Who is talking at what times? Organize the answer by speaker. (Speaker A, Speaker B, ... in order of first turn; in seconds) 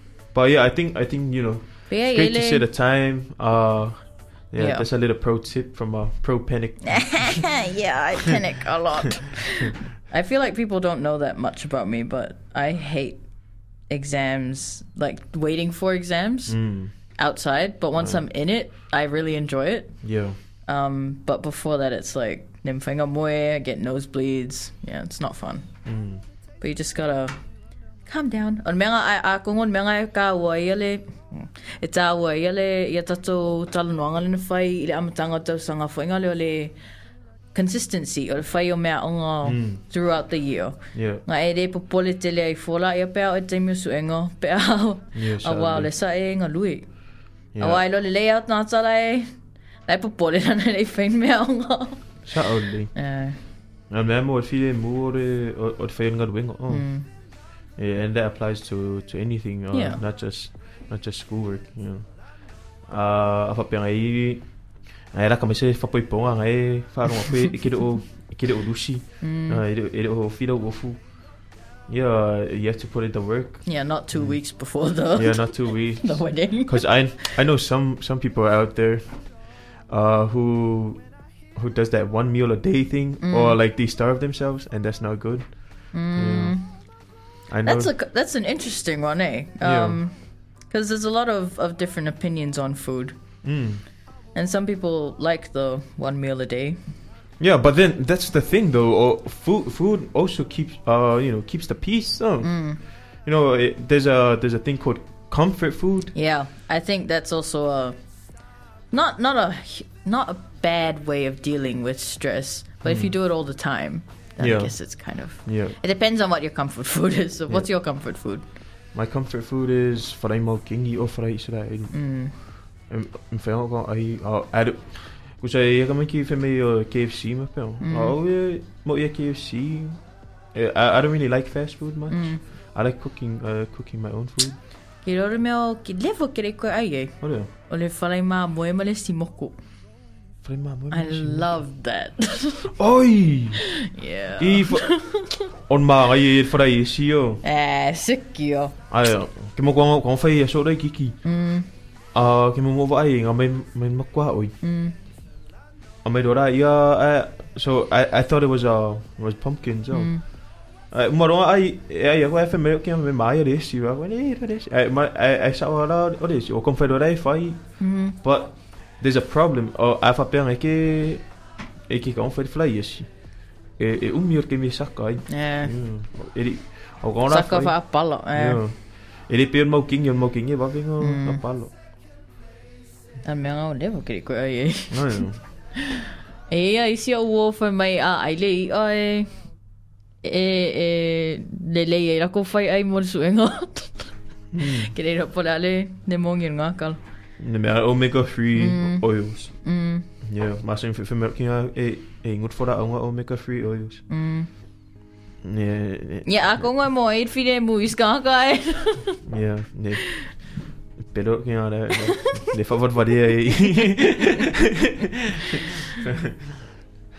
Speaker A: 0.3-7.5, 16.5-16.9, 17.9-18.3, 20.0-20.4, 25.9-26.2, 39.4-39.8, 40.9-41.2, 45.1-45.9, 47.5-47.8, 52.3-86.9, 87.5-87.9, 89.6-90.0, 93.4-93.8, 97.4-106.2, 112.8-113.2, 114.4-115.8, 118.9-134.6, 137.2-137.5, 140.4-141.6, 142.8-143.8, 144.4-147.4, 148.9-151.3, 152.1-154.6, 156.0-181.7, 184.9-185.4, 194.5-194.9, 197.4-204.0, 205.4-206.7, 209.2-214.9, 216.0-216.3
Speaker B: 1.9-2.7, 4.6-4.9, 7.0-26.0, 26.6-37.0, 37.5-52.3, 53.0-53.4, 56.7-57.1, 59.7-60.0, 69.2-69.6, 73.7-77.1, 83.2-83.6, 85.9-87.1, 87.7-93.6, 94.3-97.0, 102.4-102.8, 106.1-118.5, 121.9-122.3, 127.8-128.2, 132.1-132.4, 135.0-139.6, 140.9-142.7, 143.9-145.3, 147.4-148.7, 151.2-151.7, 154.6-154.9, 159.9-160.2, 167.8-168.2, 175.3-175.7, 177.3-178.6, 181.0-181.4, 183.2-185.9, 186.5-189.6, 190.2-197.0, 198.6-200.1, 204.1-204.5, 206.3-209.2